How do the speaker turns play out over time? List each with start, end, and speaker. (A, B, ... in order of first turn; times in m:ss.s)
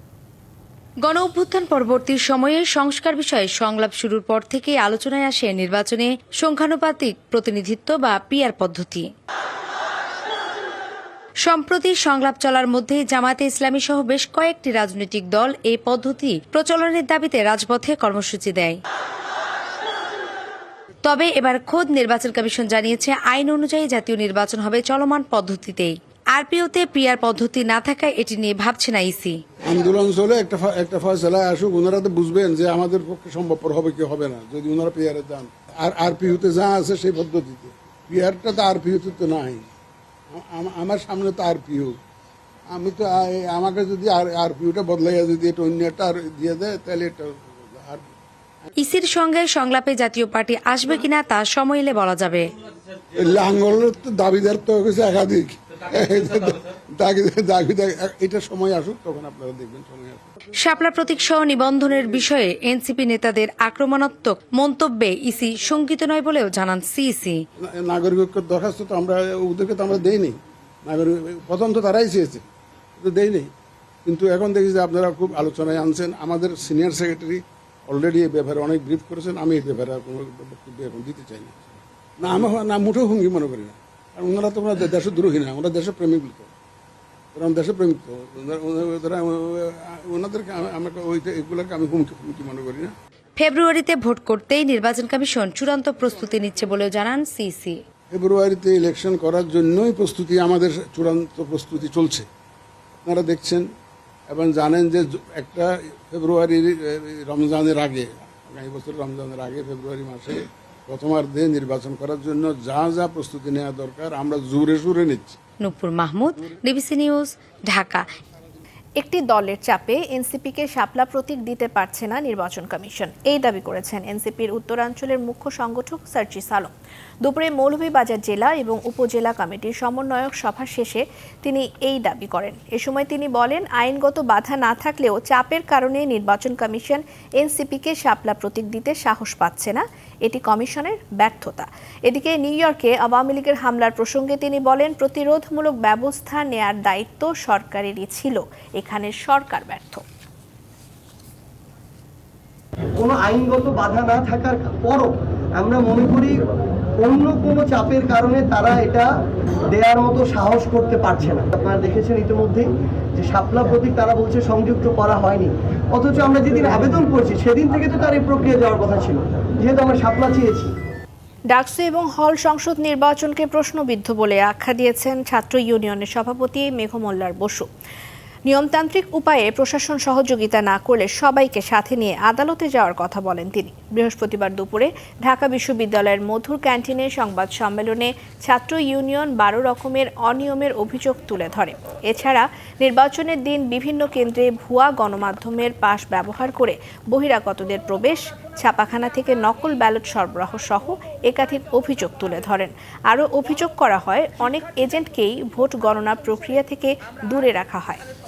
0:01.0-0:09.1 A
0:11.4-0:18.8 A
0:21.0-0:29.4 A
0:29.6-0:39.7 B
0:40.3-0:42.0 B
0:42.7-0:48.0 B
0:48.8-0:52.5 A
0:53.1-1:00.4 B
1:00.5-1:07.4 A
1:07.6-1:12.4 B
1:13.0-1:13.5 B
1:14.0-1:26.5 B
1:27.3-1:32.9 B
1:33.4-1:37.8 A
1:38.1-1:42.3 B
1:43.0-1:43.7 B
1:44.3-1:55.4 B
1:55.6-1:58.1 A
1:59.0-2:06.7 C
2:07.2-2:30.0 C
2:33.0-2:36.4 D
2:37.0-2:39.1 D
2:39.7-2:50.8 D
2:51.5-2:57.7 C
2:58.5-3:28.1 C